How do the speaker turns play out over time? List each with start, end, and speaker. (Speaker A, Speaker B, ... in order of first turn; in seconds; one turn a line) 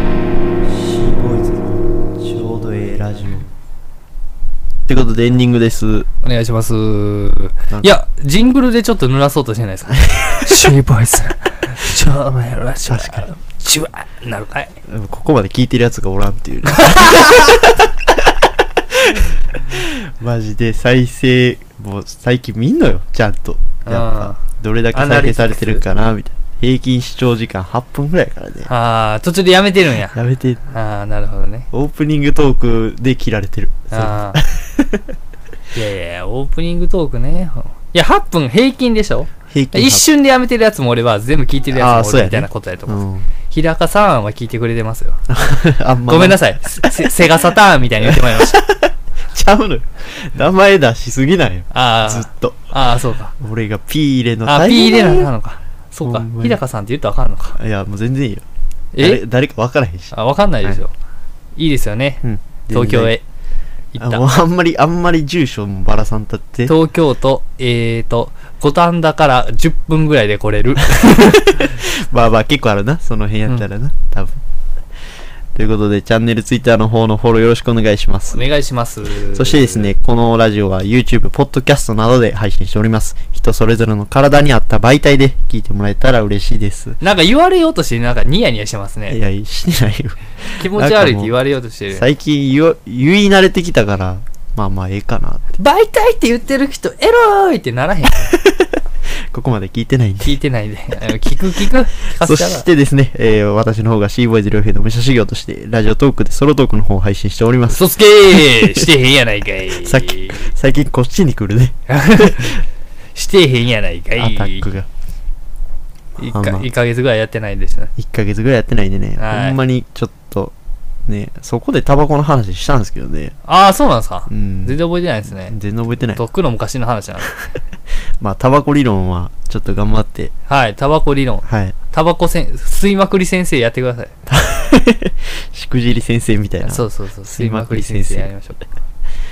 Speaker A: 0.6-3.5
Speaker A: 4.8-6.1
Speaker B: 6.2-14.8
Speaker A: 10.1-10.7
Speaker A: 12.9-13.3
Speaker A: 14.9-18.3
Speaker A: 18.9-28.7
Speaker B: 23.9-24.4
Speaker B: 24.9-25.8
Speaker B: 28.6-30.1
Speaker A: 30.1-30.6
Speaker B: 30.7-31.7
Speaker A: 31.7-35.0
Speaker B: 33.9-34.4
Speaker B: 35.7-45.2
Speaker A: 39.5-40.0
Speaker A: 41.7-43.3
Speaker A: 45.3-47.1
Speaker B: 46.1-48.6
Speaker A: 48.0-52.6
Speaker B: 51.7-53.3
Speaker A: 53.4-55.3
Speaker B: 54.5-57.6
Speaker A: 56.0-56.6
Speaker A: 57.6-58.4
Speaker B: 58.9-59.2
Speaker A: 59.0-60.1
Speaker B: 60.1-60.9
Speaker B: 61.5-63.2
Speaker A: 62.2-63.1
Speaker B: 63.9-64.2
Speaker A: 64.0-66.7
Speaker B: 66.7-71.6
Speaker A: 70.9-74.4
Speaker A: 75.5-78.4
Speaker B: 78.3-79.9
Speaker A: 79.3-87.0
Speaker B: 87.0-89.2
Speaker A: 89.1-91.3
Speaker B: 90.5-92.0
Speaker A: 91.9-95.6
Speaker B: 95.6-98.3
Speaker A: 99.3-100.3
Speaker B: 100.2-102.7
Speaker A: 102.2-107.9
Speaker B: 107.7-110.5
Speaker A: 108.6-108.9
Speaker A: 109.8-112.5
Speaker B: 111.9-112.6
Speaker B: 113.1-114.7
Speaker A: 114.2-114.9
Speaker B: 116.2-117.9
Speaker A: 116.2-116.7
Speaker A: 118.0-120.5
Speaker B: 119.2-119.6
Speaker A: 121.0-123.3
Speaker B: 123.5-125.5
Speaker A: 124.3-124.8
Speaker A: 125.5-126.2
Speaker B: 126.2-127.3
Speaker A: 128.2-130.3
Speaker B: 130.5-134.1
Speaker A: 131.4-131.8
Speaker A: 134.3-138.3
Speaker B: 136.6-138.7